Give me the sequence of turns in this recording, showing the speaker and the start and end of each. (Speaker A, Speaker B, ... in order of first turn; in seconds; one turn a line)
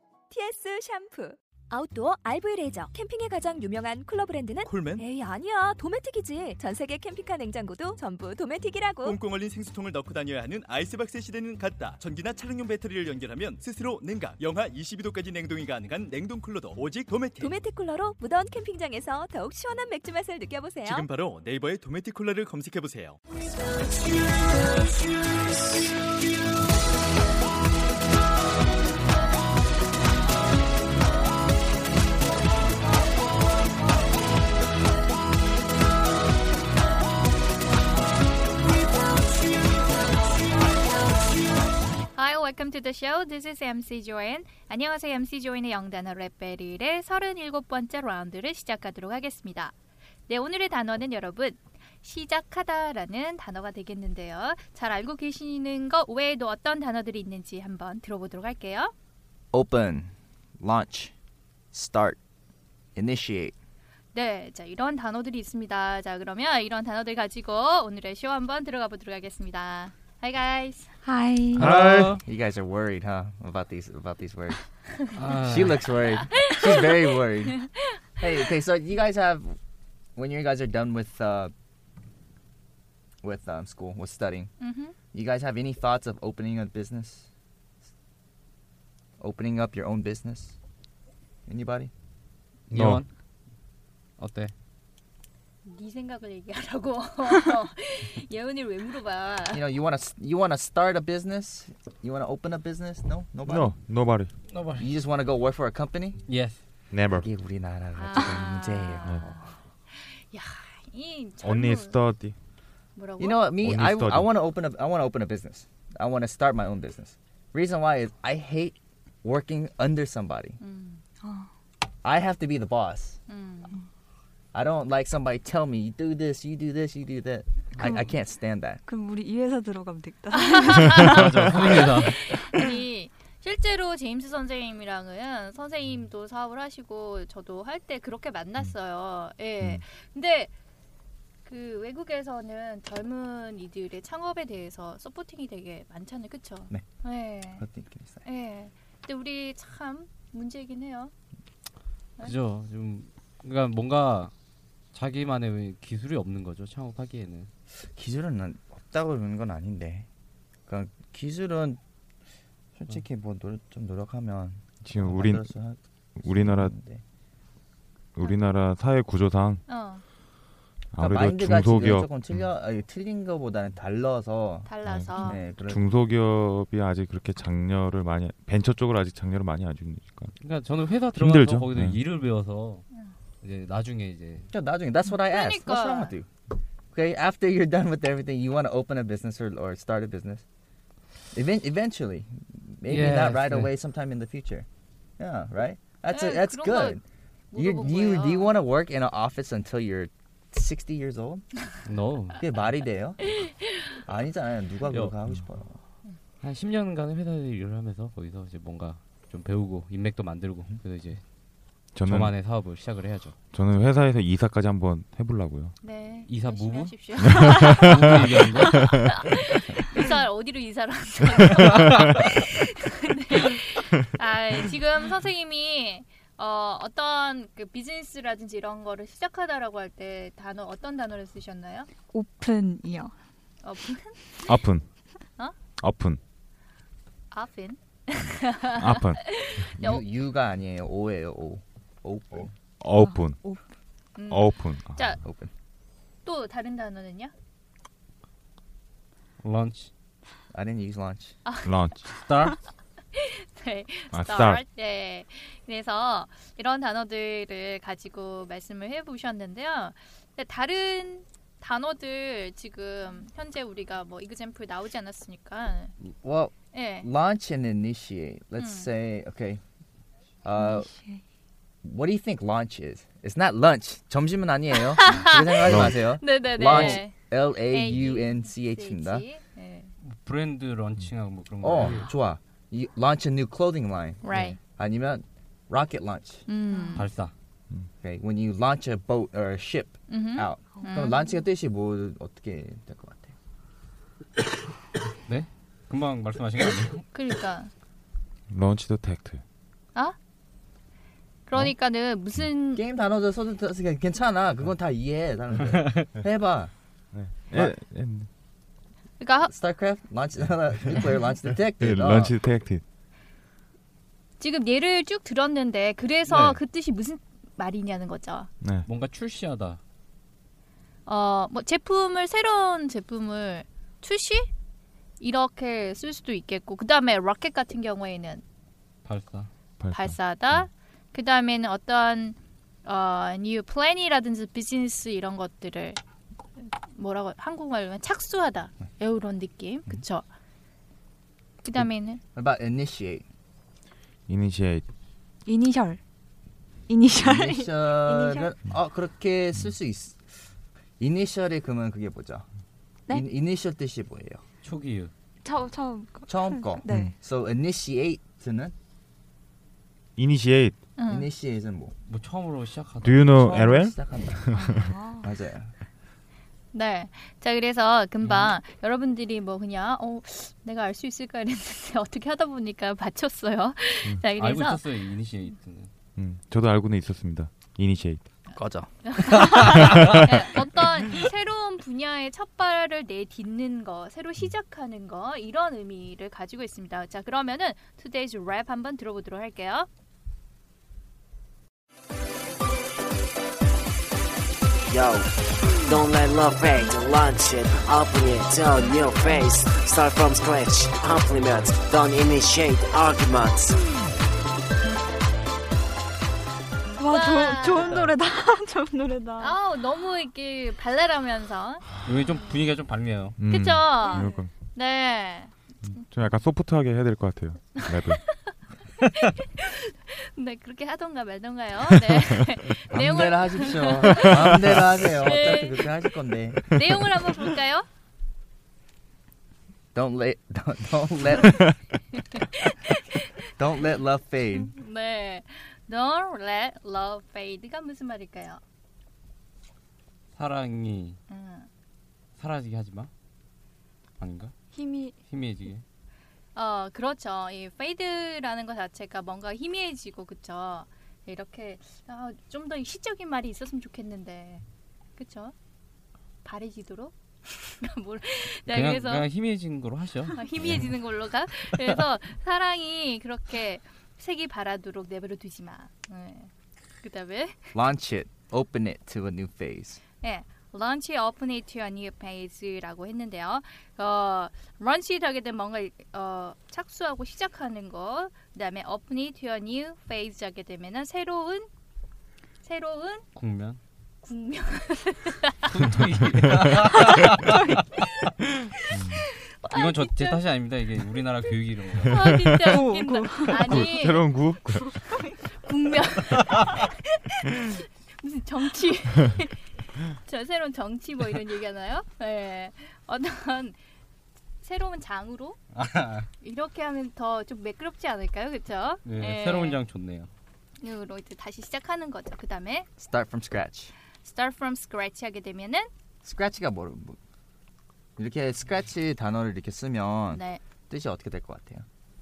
Speaker A: 0.3-9.2
Speaker B: 4.7-5.0
Speaker B: 9.1-17.5
Speaker A: 17.4-21.1
Speaker B: 20.9-23.2
Speaker C: 42.1-49.8
Speaker C: 50.3-58.9
Speaker D: 59.5-61.1
Speaker D: 61.7-62.2
Speaker D: 63.0-63.5
Speaker C: 64.1-70.9
Speaker E: 71.0-71.8
Speaker F: 71.6-72.2
Speaker D: 71.6-74.6
Speaker F: 75.1-75.9
Speaker D: 75.4-79.6
Speaker C: 76.4-76.9
Speaker D: 80.2-81.5
Speaker D: 83.2-84.5
Speaker C: 84.6-85.0
Speaker D: 85.1-87.3
Speaker D: 89.2-90.6
Speaker D: 91.5-91.9
Speaker F: 92.7-93.1
Speaker G: 92.7-93.0
Speaker F: 94.2-94.5
Speaker C: 95.7-99.6
Speaker D: 99.5-103.8
Speaker G: 103.5-104.3
Speaker F: 104.5-104.9
Speaker D: 104.8-106.2
Speaker F: 106.3-106.6
Speaker G: 106.9-107.3
Speaker D: 107.2-109.4
Speaker C: 108.0-112.0
Speaker G: 111.4-112.3
Speaker C: 113.0-113.5
Speaker D: 113.2-120.6
Speaker G: 113.6-114.3
Speaker C: 120.6-121.0
Speaker E: 121.2-121.5
Speaker D: 122.0-123.2
Speaker C: 123.3-123.8
Speaker D: 124.5-128.8
Speaker E: 127.8-128.2
Speaker E: 128.9-131.3
Speaker C: 130.3-140.5
Speaker F: 131.1-132.2
Speaker C: 141.4-147.7
Speaker D: 147.6-148.2
Speaker C: 148.2-151.1
Speaker F: 152.2-154.3
Speaker F: 154.9-157.5
Speaker D: 157.7-160.1
Speaker D: 160.7-161.8
Speaker D: 162.8-167.0
Speaker G: 164.8-165.5
Speaker G: 166.2-166.7
Speaker G: 168.2-169.6
Speaker C: 169.7-170.0
Speaker G: 170.9-172.5
Speaker D: 171.0-175.8
Speaker C: 174.7-175.4
Speaker G: 174.8-180.3
Speaker F: 180.4-182.8
Speaker G: 181.1-182.0
Speaker F: 183.4-184.5
Speaker D: 184.5-186.3
Speaker C: 185.1-186.2
Speaker D: 186.9-190.4
Speaker D: 191.3-194.7
Speaker F: 192.8-193.7
Speaker D: 195.2-197.0
Speaker C: 196.1-197.0
Speaker C: 197.5-198.5
Speaker D: 197.6-201.5
Speaker F: 201.9-202.5
Speaker D: 202.3-203.4
Speaker C: 203.4-203.9
Speaker D: 204.1-205.8
Speaker F: 204.9-205.2
Speaker F: 206.4-211.2
Speaker G: 211.9-212.3
Speaker F: 212.0-213.3
Speaker G: 213.5-215.7
Speaker C: 215.8-218.2
Speaker F: 216.3-217.0
Speaker G: 217.3-218.2
Speaker F: 217.8-218.7
Speaker C: 218.7-231.9
Speaker E: 232.1-233.2
Speaker C: 233.6-234.6
Speaker G: 234.5-234.9
Speaker G: 235.8-236.2
Speaker C: 237.3-240.1
Speaker G: 238.8-239.2
Speaker D: 239.7-242.5
Speaker G: 242.8-243.4
Speaker E: 243.0-243.6
Speaker C: 244.2-245.2
Speaker G: 244.3-245.2
Speaker D: 245.2-245.5
Speaker C: 246.2-247.3
Speaker F: 249.4-249.9
Speaker D: 250.5-251.4
Speaker C: 251.4-252.1
Speaker G: 251.7-252.1
Speaker F: 252.1-252.6
Speaker C: 253.1-265.9
Speaker G: 254.1-254.6
Speaker D: 266.1-269.6
Speaker C: 266.7-267.1
Speaker C: 268.6-268.9
Speaker D: 270.4-270.9
Speaker E: 270.6-271.2
Speaker D: 271.8-279.2
Speaker C: 275.0-279.9
Speaker G: 275.6-276.0
Speaker F: 276.6-277.0
Speaker F: 280.0-282.1
Speaker D: 281.6-286.5
Speaker C: 284.2-284.6
Speaker C: 286.5-287.1
Speaker E: 286.7-287.1
Speaker F: 286.9-287.3
Speaker D: 288.0-293.3
Speaker C: 290.1-291.2
Speaker F: 295.3-297.0
Speaker C: 297.1-297.7
Speaker G: 298.5-299.4
Speaker C: 301.5-302.8
Speaker D: 302.7-306.7
Speaker G: 307.1-308.3
Speaker C: 309.2-309.5
Speaker D: 309.4-312.4
Speaker G: 311.8-312.8
Speaker C: 314.4-318.5
Speaker F: 316.3-316.6
Speaker G: 318.6-318.9
Speaker F: 318.9-319.8
Speaker C: 321.1-324.5
Speaker C: 325.2-328.4
Speaker F: 329.1-329.5
Speaker G: 329.8-330.6
Speaker C: 329.9-336.0
Speaker C: 336.6-340.3
Speaker C: 341.6-342.2
Speaker D: 341.8-343.2
Speaker G: 344.3-344.8
Speaker E: 345.5-346.0
Speaker E: 346.9-348.5
Speaker D: 347.1-350.2
Speaker D: 351.0-352.5
Speaker D: 353.1-354.4
Speaker F: 354.6-355.1
Speaker E: 355.4-357.1
Speaker D: 356.3-358.7
Speaker G: 360.2-360.8
Speaker C: 361.0-361.3
Speaker D: 361.1-361.9
Speaker F: 362.1-363.8
Speaker G: 363.0-364.9
Speaker D: 363.3-364.4
Speaker E: 364.6-365.3
Speaker D: 365.1-365.7
Speaker C: 366.7-374.9
Speaker F: 368.2-368.5
Speaker F: 374.3-375.9
Speaker G: 376.2-378.3
Speaker D: 378.6-378.9
Speaker C: 379.0-389.9
Speaker G: 379.8-380.2
Speaker H: 394.9-395.3
Speaker H: 395.8-403.8
Speaker E: 407.0-409.6
Speaker C: 407.1-408.0
Speaker C: 409.4-411.8
Speaker F: 412.1-413.4
Speaker G: 413.4-414.5
Speaker C: 413.5-415.6
Speaker E: 414.0-414.3
Speaker G: 415.9-418.3
Speaker C: 417.8-426.1
Speaker D: 422.9-426.9
Speaker C: 426.7-427.9
Speaker D: 429.9-431.8
Speaker C: 432.3-433.5
Speaker D: 433.6-434.7
Speaker C: 434.6-438.6
Speaker F: 440.3-441.2
Speaker C: 441.3-441.7
Speaker F: 442.4-443.1
Speaker F: 444.2-444.5
Speaker E: 444.7-445.2
Speaker F: 445.3-445.8
Speaker C: 446.6-454.6
Speaker C: 455.2-455.5
Speaker C: 456.4-459.3
Speaker F: 458.7-460.9
Speaker C: 460.3-466.5
Speaker C: 467.0-467.7
Speaker D: 467.7-470.0
Speaker C: 470.2-481.7
Speaker C: 482.6-483.2
Speaker F: 483.4-483.8
Speaker C: 484.2-485.7
Speaker F: 485.7-488.1
Speaker G: 488.9-489.2
Speaker C: 488.9-490.5
Speaker F: 489.7-492.3
Speaker C: 492.0-494.3
Speaker G: 492.2-492.7
Speaker E: 492.6-493.9
Speaker G: 493.6-495.0
Speaker C: 495.2-503.8
Speaker C: 504.6-505.6
Speaker F: 505.7-506.3
Speaker C: 506.4-509.8
Speaker F: 509.1-510.3
Speaker C: 510.8-512.9
Speaker D: 513.0-513.9
Speaker C: 514.2-515.9
Speaker D: 516.2-517.2
Speaker D: 518.2-521.9
Speaker C: 520.3-520.6